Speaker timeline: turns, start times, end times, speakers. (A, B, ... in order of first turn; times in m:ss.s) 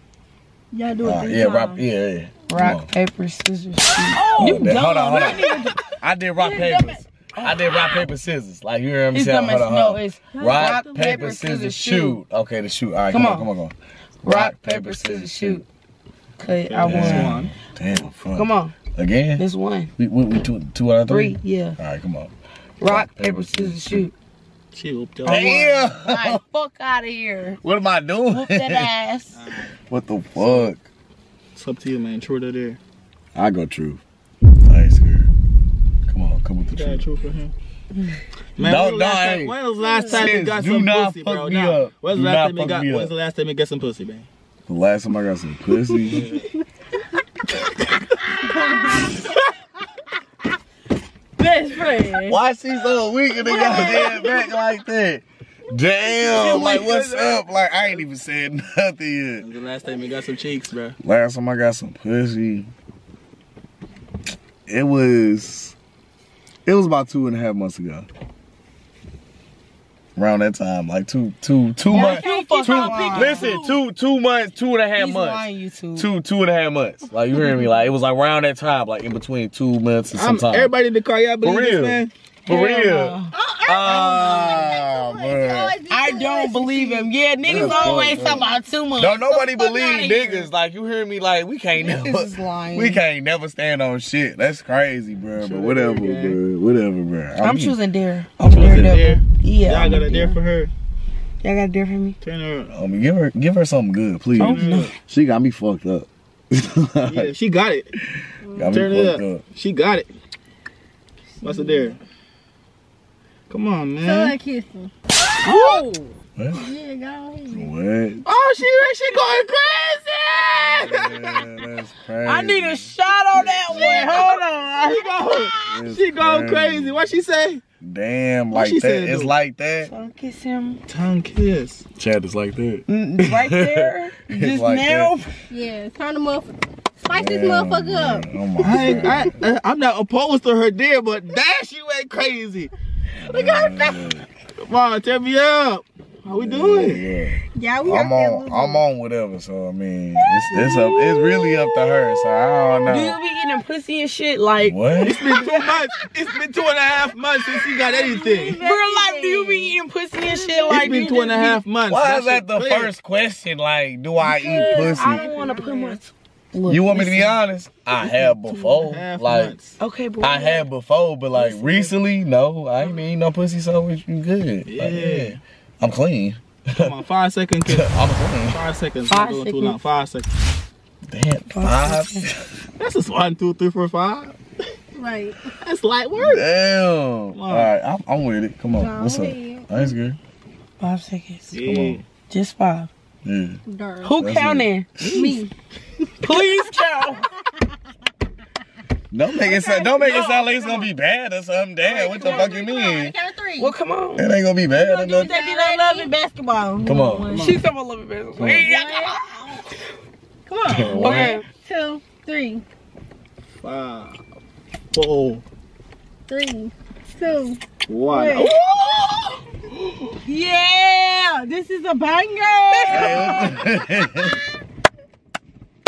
0:00.7-0:01.8 A
0:01.0-0:02.9 B
0:02.5-0:04.8 C
0:04.1-0:07.0 A
0:04.4-0:05.5 B
0:06.0-0:13.7 B
0:09.1-0:12.2 C
0:10.3-0:11.3 A
0:13.1-0:13.5 C
0:14.2-0:15.6 C
0:14.2-0:15.6 B
0:16.4-0:17.4 C
0:16.6-0:17.5 D
0:16.8-0:19.4 B
0:18.3-0:18.7 C
0:19.4-0:19.9 C
0:20.0-0:24.0 B
0:21.1-0:21.8 C
0:22.8-0:24.1 C
0:24.7-0:25.6 D
0:25.2-0:26.4 B
0:25.2-0:27.6 C
0:27.6-0:28.9 B
0:28.3-0:29.4 C
0:29.3-0:29.8 D
0:29.9-0:30.8 B
0:30.4-0:30.7 D
0:31.5-0:32.8 D
0:33.3-0:34.0 B
0:34.6-0:35.3 B
0:36.1-0:37.0 B
0:36.7-0:37.5 D
0:38.6-0:44.3 D
0:38.6-0:43.1 B
0:39.8-0:40.2 A
0:44.7-0:46.2 B
0:46.1-0:46.4 D
0:48.6-0:49.1 A
0:51.4-0:52.4 A
0:52.2-0:59.4 B
0:53.5-0:54.3 A
0:56.2-0:58.0 D
0:59.4-1:01.0 D
1:01.0-1:02.7 B
1:04.7-1:05.7 B
1:06.6-1:08.1 B
1:10.2-1:20.7 B
1:11.8-1:13.8 A
1:11.9-1:13.6 C
1:15.0-1:16.1 C
1:17.4-1:17.7 A
1:20.1-1:22.1 D
1:21.4-1:25.8 B
1:22.4-1:23.3 C
1:23.3-1:28.5 A
1:25.9-1:30.5 C
1:27.4-1:37.8 B
1:31.7-1:33.0 C
1:35.4-1:36.4 D
1:37.4-1:40.4 C
1:38.4-1:39.0 B
1:38.4-1:40.7 D
1:41.4-1:42.2 C
1:42.2-1:42.7 D
1:42.7-1:47.3 B
1:44.4-1:44.9 C
1:44.4-1:44.9 D
1:47.0-1:47.9 D
1:48.4-1:48.8 A
1:48.5-1:49.4 B
1:48.7-1:50.1 D
1:51.4-1:52.0 A
1:51.4-1:52.0 D
1:53.5-1:54.4 D
1:54.0-1:54.9 A
1:55.4-1:55.9 C
1:55.4-1:57.7 A
1:56.4-1:56.7 B
1:57.5-1:58.2 B
1:58.2-2:01.4 D
2:00.7-2:04.2 B
2:02.2-2:05.6 C
2:03.7-2:04.2 D
2:03.9-2:04.4 A
2:04.9-2:07.6 D
2:05.7-2:07.0 B
2:07.8-2:09.9 B
2:08.5-2:09.3 D
2:09.8-2:10.8 C
2:10.9-2:11.8 D
2:12.0-2:15.1 B
2:12.9-2:15.3 C
2:15.5-2:18.3 A
2:17.0-2:19.3 B
2:18.6-2:22.7 D
2:23.2-2:24.2 B
2:24.6-2:27.1 D
2:26.3-2:33.2 B
2:27.5-2:28.8 A
2:30.7-2:31.2 A
2:32.8-2:35.7 C
2:34.6-2:35.2 B
2:35.0-2:38.6 D
2:37.8-2:40.9 A
2:38.6-2:41.6 C
2:40.7-2:42.9 D
2:41.9-2:45.4 B
2:44.2-2:46.0 A
2:44.4-2:47.4 C
2:46.7-2:49.6 B
2:48.1-2:49.8 D
2:49.8-2:50.7 C
2:50.2-2:56.9 B
2:51.4-2:51.8 D
2:54.6-2:55.4 D
2:56.8-3:00.3 D
2:57.6-2:58.6 B
2:59.1-2:59.8 C
3:01.1-3:02.6 B
3:01.5-3:02.3 C
3:02.8-3:04.4 D
3:04.9-3:05.5 A
3:05.6-3:06.5 D
3:06.2-3:10.2 B
3:07.3-3:07.7 D
3:08.7-3:09.7 A
3:10.8-3:11.5 C
3:11.5-3:12.0 D
3:11.6-3:12.0 B
3:12.3-3:12.9 C
3:13.2-3:13.6 B
3:13.7-3:14.2 A
3:14.0-3:14.9 C
3:14.1-3:15.1 B
3:15.0-3:15.4 D
3:15.1-3:15.5 A
3:16.2-3:17.3 C
3:19.1-3:23.1 B
3:19.4-3:20.9 A
3:21.8-3:23.7 A
3:23.6-3:24.4 C
3:24.2-3:25.4 B
3:24.7-3:27.5 A
3:25.4-3:26.0 C
3:26.8-3:27.4 B
3:27.3-3:29.6 C
3:28.4-3:28.6 B
3:28.6-3:29.6 A
3:30.5-3:32.6 A
3:30.7-3:31.3 B
3:30.8-3:31.3 D
3:30.9-3:31.4 C
3:33.6-3:34.2 D
3:34.9-3:35.4 D
3:36.3-3:38.5 A
3:37.9-3:39.4 D
3:40.2-3:43.6 A
3:42.7-3:43.5 C
3:42.9-3:44.4 B
3:43.0-3:43.3 D